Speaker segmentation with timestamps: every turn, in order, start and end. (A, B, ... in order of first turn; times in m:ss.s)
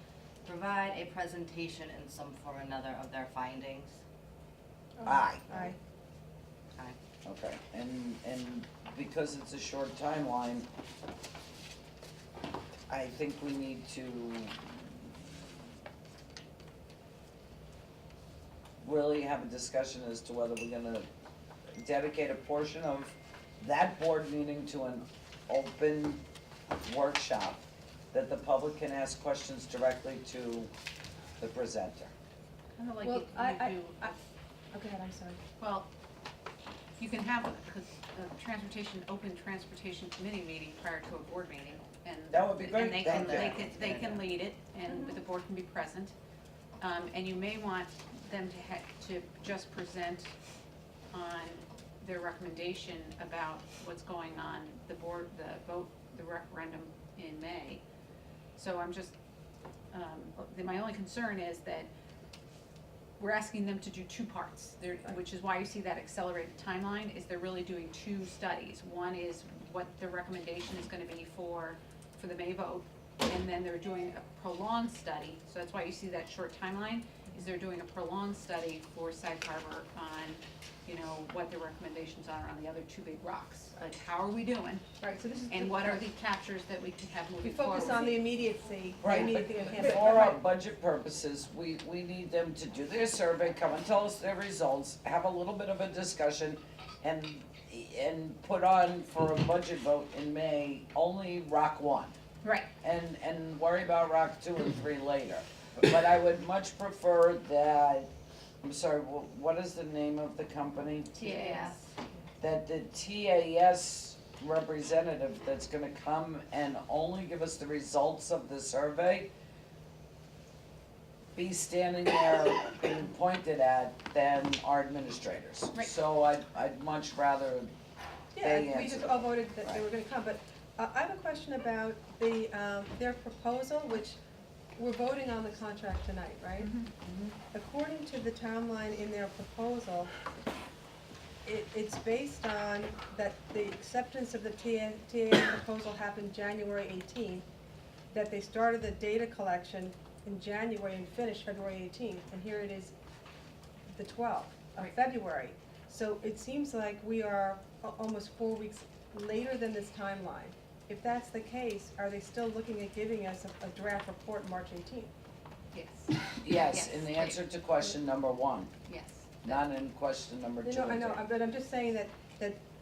0:00.4-0:04.0 A
0:05.0-0:05.8 B
0:05.0-0:05.7 C
0:07.2-0:10.7 C
0:12.9-0:15.4 C
0:18.8-0:21.1 C
0:21.8-0:26.2 C
0:26.8-0:30.7 C
0:31.4-0:32.1 C
0:32.8-0:34.2 D
0:33.0-0:34.1 B
0:34.7-0:35.4 B
0:35.6-0:35.9 D
0:37.0-0:46.1 D
0:42.3-0:44.2 C
0:43.0-0:44.2 A
0:44.9-0:45.2 B
0:46.8-0:50.3 D
0:51.1-0:57.8 D
0:58.6-0:59.1 D
0:59.9-1:01.9 D
1:03.2-1:24.9 D
1:25.0-1:26.1 B
1:25.5-1:28.3 D
1:27.4-1:30.4 B
1:29.0-1:42.2 C
1:29.1-1:29.8 D
1:42.4-1:42.7 D
1:42.8-1:48.1 C
1:48.6-1:51.2 C
1:51.2-1:51.8 A
1:51.2-1:51.8 D
1:52.4-1:59.3 C
2:01.4-2:07.7 C
2:08.3-2:14.2 B
2:08.4-2:09.8 C
2:14.8-2:16.8 B
2:16.6-2:17.3 D
2:17.5-2:20.1 B
2:21.4-2:27.5 B
2:28.1-2:33.0 B
2:33.9-2:45.1 B
2:45.7-2:47.4 D
2:46.4-2:48.7 C
2:48.8-2:49.6 D
2:49.4-2:51.2 C
2:50.6-2:52.6 B